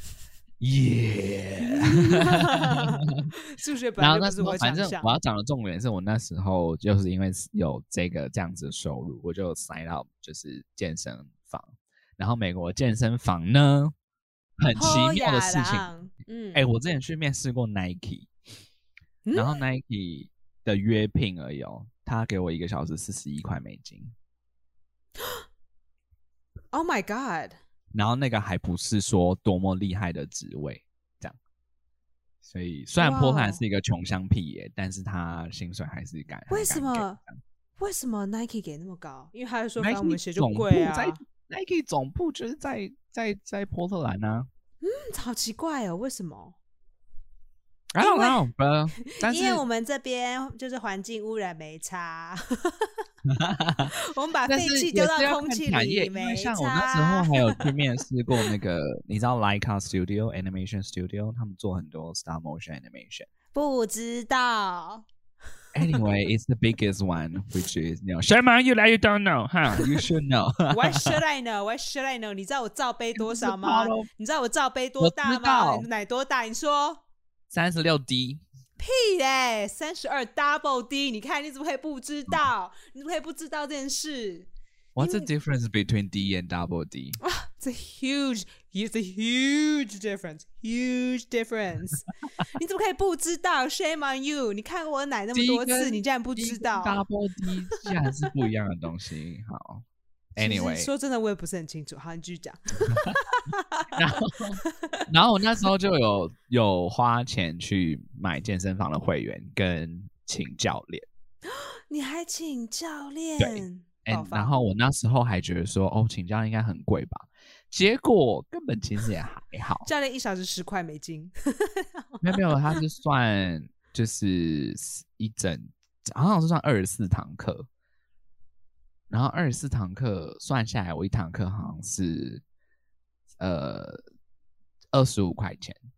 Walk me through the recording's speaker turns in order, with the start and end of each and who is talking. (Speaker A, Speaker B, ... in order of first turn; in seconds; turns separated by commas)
Speaker A: 0.6-3.3, Speaker B: 1.6-5.1, Speaker A: 4.0-13.9, Speaker A: 14.6-15.9, Speaker B: 14.7-16.6, Speaker A: 16.5-18.3, Speaker B: 19.2-19.6, Speaker A: 19.3-24.1, Speaker B: 26.7-27.6, Speaker A: 27.9-31.4, Speaker A: 32.4-37.4, Speaker B: 33.0-33.6, Speaker B: 36.5-37.2, Speaker B: 37.8-41.2, Speaker A: 39.8-44.5, Speaker B: 44.8-46.6, Speaker A: 47.9-49.6, Speaker B: 48.0-48.5, Speaker B: 49.1-52.9, Speaker A: 53.2-53.9, Speaker B: 53.9-57.7, Speaker A: 54.5-63.3, Speaker B: 63.5-65.0, Speaker A: 65.7-71.2, Speaker B: 69.8-70.0, Speaker B: 70.7-77.0, Speaker A: 73.2-74.1, Speaker A: 75.0-75.9, Speaker A: 77.5-78.4, Speaker B: 78.8-85.3, Speaker A: 85.0-87.2, Speaker B: 87.2-97.0, Speaker A: 95.3-100.9, Speaker B: 97.8-98.3, Speaker B: 100.4-105.0, Speaker A: 102.9-103.1, Speaker A: 103.9-111.1, Speaker B: 111.5-114.6, Speaker A: 113.4-119.9, Speaker B: 119.8-122.8, Speaker A: 122.2-127.7, Speaker A: 129.1-132.4, Speaker A: 133.4-134.0, Speaker A: 134.9-135.8